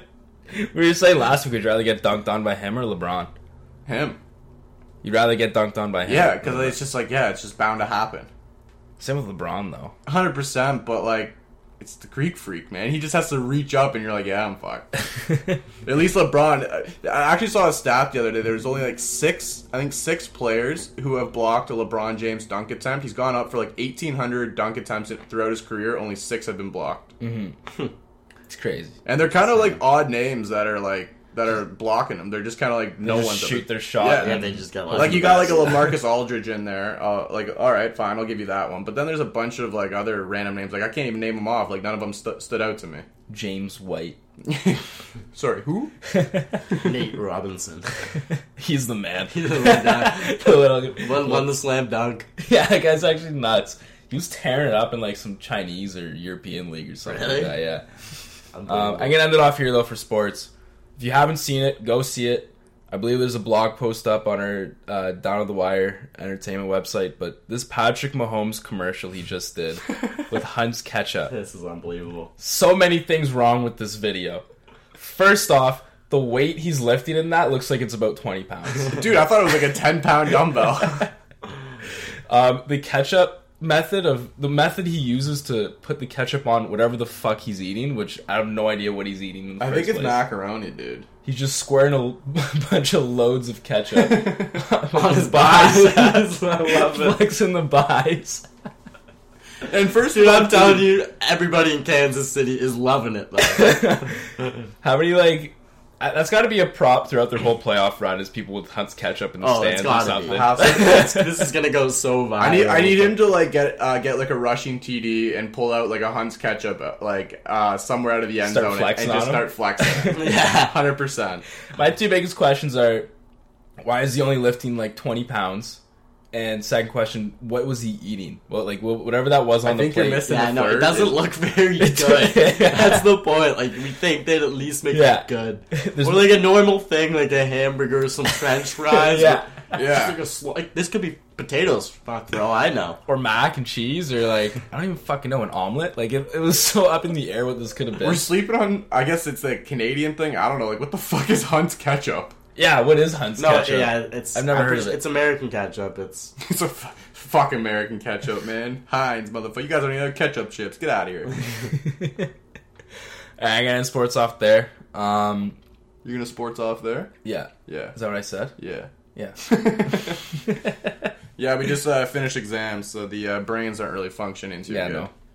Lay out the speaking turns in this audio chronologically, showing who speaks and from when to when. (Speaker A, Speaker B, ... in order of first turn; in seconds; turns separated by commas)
Speaker A: 0.5-3.3, Speaker B: 3.9-4.2, Speaker A: 5.0-6.8, Speaker B: 6.0-8.3, Speaker A: 9.0-9.9, Speaker B: 10.1-14.9, Speaker B: 15.8-27.1, Speaker A: 27.2-27.5, Speaker A: 28.5-28.9, Speaker B: 29.0-43.0, Speaker C: 29.5-29.8, Speaker A: 33.0-35.7, Speaker C: 34.0-36.0, Speaker A: 43.3-44.2, Speaker B: 44.4-44.8, Speaker B: 45.3-45.9, Speaker A: 46.1-46.6, Speaker C: 46.8-47.9, Speaker A: 48.6-51.5, Speaker C: 49.3-52.3, Speaker A: 52.4-57.8, Speaker C: 57.0-57.5, Speaker C: 58.5-59.2, Speaker A: 58.7-71.3, Speaker C: 71.3-72.3, Speaker A: 72.4-74.4, Speaker A: 75.0-79.1, Speaker B: 78.9-81.1, Speaker A: 82.3-90.2, Speaker B: 89.6-91.1, Speaker A: 91.2-98.4, Speaker B: 93.9-94.6, Speaker C: 94.9-97.2, Speaker B: 99.6-101.0, Speaker C: 100.1-104.5, Speaker A: 103.5-104.1, Speaker A: 104.8-111.3, Speaker C: 109.4-113.3, Speaker B: 110.3-111.1, Speaker B: 112.4-121.4, Speaker A: 118.4-120.1, Speaker C: 120.1-120.8, Speaker A: 121.7-123.1, Speaker A: 123.8-125.8, Speaker A: 126.3-130.3, Speaker B: 129.6-131.3, Speaker C: 130.2-143.0, Speaker A: 131.8-133.2, Speaker A: 134.9-136.4, Speaker A: 138.8-139.5, Speaker B: 139.7-140.2, Speaker A: 143.1-148.3, Speaker B: 148.0-152.3, Speaker A: 152.6-155.0, Speaker C: 153.4-156.3, Speaker B: 156.4-161.4, Speaker A: 161.7-162.3, Speaker A: 163.4-165.6, Speaker B: 166.0-167.1, Speaker A: 167.2-168.5, Speaker B: 167.7-167.9, Speaker B: 168.6-168.9, Speaker A: 169.1-170.9, Speaker B: 169.4-170.2, Speaker B: 171.4-175.1, Speaker A: 174.7-175.1